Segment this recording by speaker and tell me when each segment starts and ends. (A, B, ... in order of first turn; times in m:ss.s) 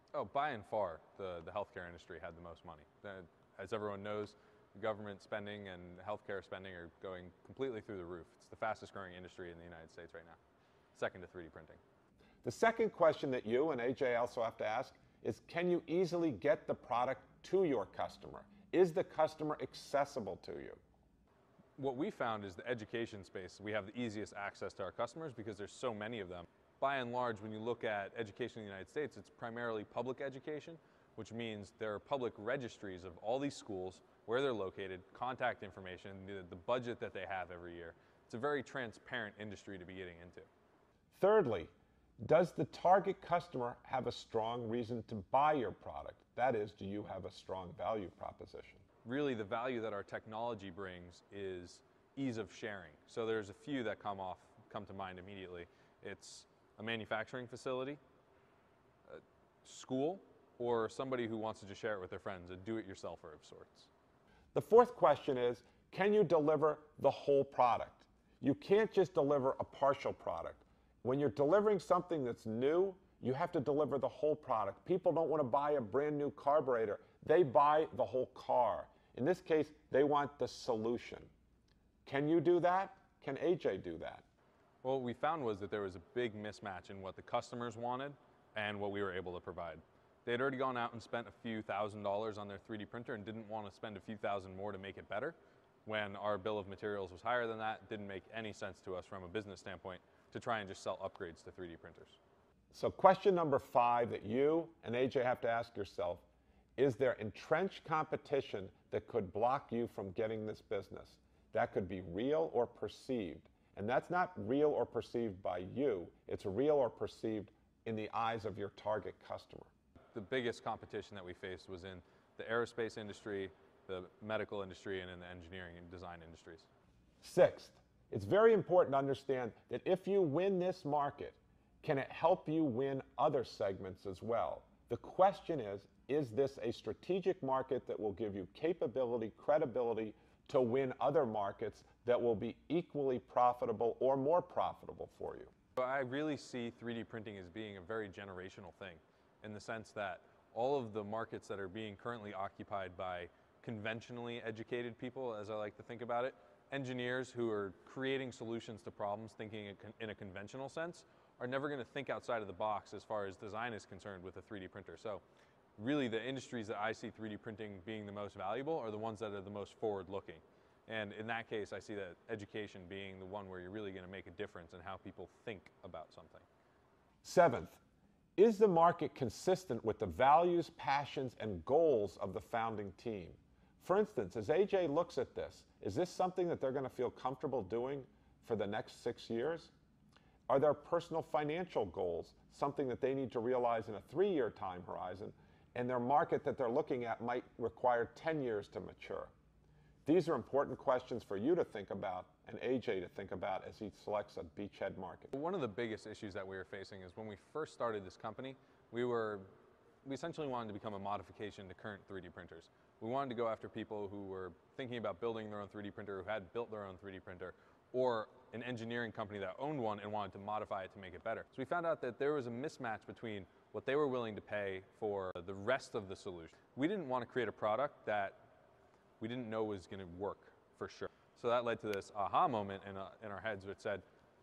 0:00.1-0:10.4 A
0:10.9-0:11.8 A
0:12.4-0:20.8 B
0:21.8-0:40.5 A
0:41.1-0:48.8 B
0:49.0-0:58.0 A
0:59.1-1:03.9 A
1:04.5-1:21.3 B
1:22.0-1:24.2 B
1:24.8-1:42.2 A
1:42.7-1:46.2 B
1:46.8-1:59.7 B
2:00.1-2:06.7 A
2:07.2-2:25.5 B
2:25.8-2:45.2 A
2:45.8-2:56.4 A
2:57.2-2:57.8 B
2:58.4-3:09.7 B
3:10.5-3:19.3 B
3:20.0-3:25.3 B
3:25.3-3:29.5 A
3:30.0-3:48.4 A
3:49.2-3:54.0 A